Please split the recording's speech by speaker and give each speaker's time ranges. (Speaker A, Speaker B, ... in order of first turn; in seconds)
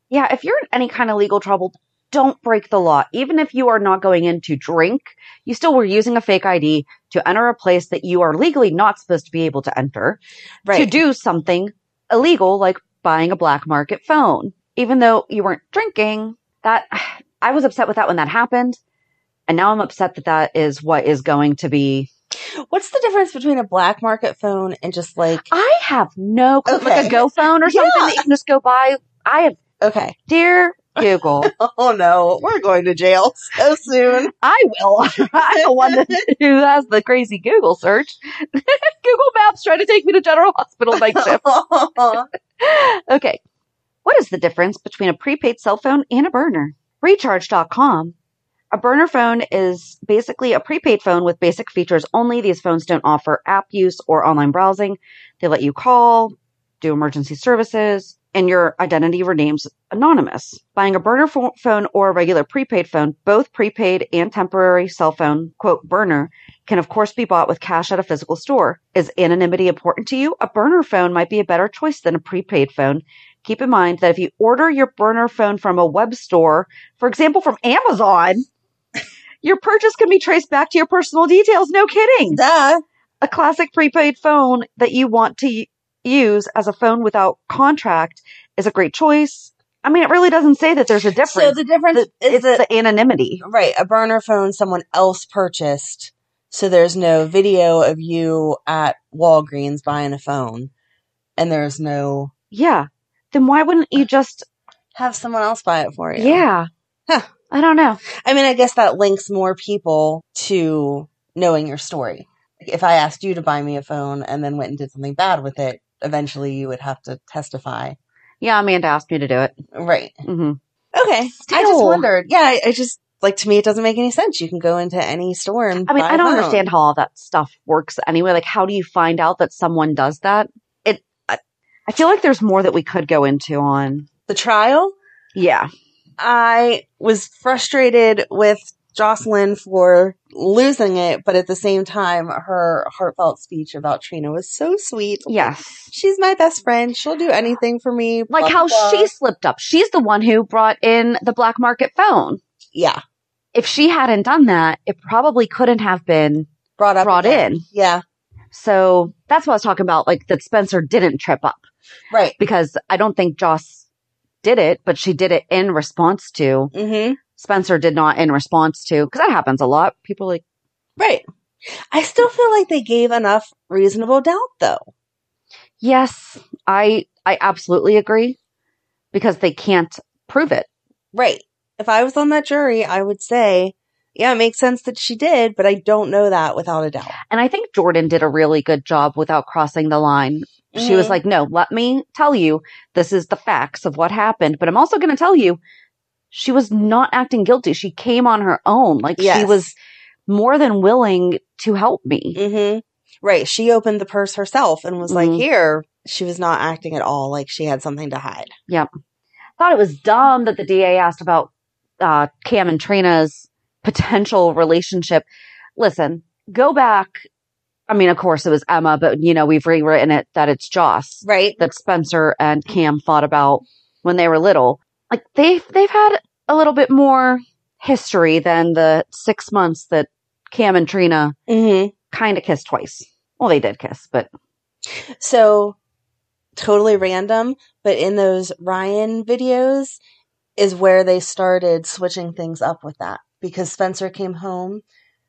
Speaker A: 0.1-10.2, 10.7-18.8, 19.5-22.1, 25.5-29.6, 30.3-31.5, 34.4-41.4, 42.6-43.4, 44.0-48.1, 48.7-78.5, 79.4-82.4, 83.2-93.4, 102.5-104.5, 106.2-106.7, 107.5-108.0, 118.4-119.5, 120.2-120.6, 121.3-122.1, 125.9-134.1, 135.3-135.7, 145.3-145.9, 148.3-152.4, 153.5-156.5, 157.0-157.6, 158.5-161.6, 162.4-163.8, 164.4-166.7, 167.3-170.4, 175.8-178.4, 179.1-180.7, 187.3-195.6, 196.3-199.7, 200.3-202.4, 205.1-205.4, 209.6-211.5, 212.0-215.2, 215.8-217.2, 217.9-231.3, 232.1-234.3
Speaker B: 10.6-10.9, 22.6-25.5, 26.7-28.2, 29.8-30.1, 31.0-34.3, 35.5-36.0, 40.9-42.3, 82.3-82.8, 91.2-92.6, 93.4-100.7, 101.4-102.3, 105.0-106.5, 108.1-118.0, 119.7-120.2, 121.0-126.6, 134.3-134.9, 136.2-149.1, 152.7-153.0, 156.8-158.0, 162.1-162.3, 166.7-167.2, 171.0-171.2, 171.9-174.9, 181.1-187.2, 190.7-191.2, 199.2-199.7, 202.3-208.5, 221.2-221.6, 231.5-231.9, 235.2-235.8, 236.6-240.0, 240.6-244.8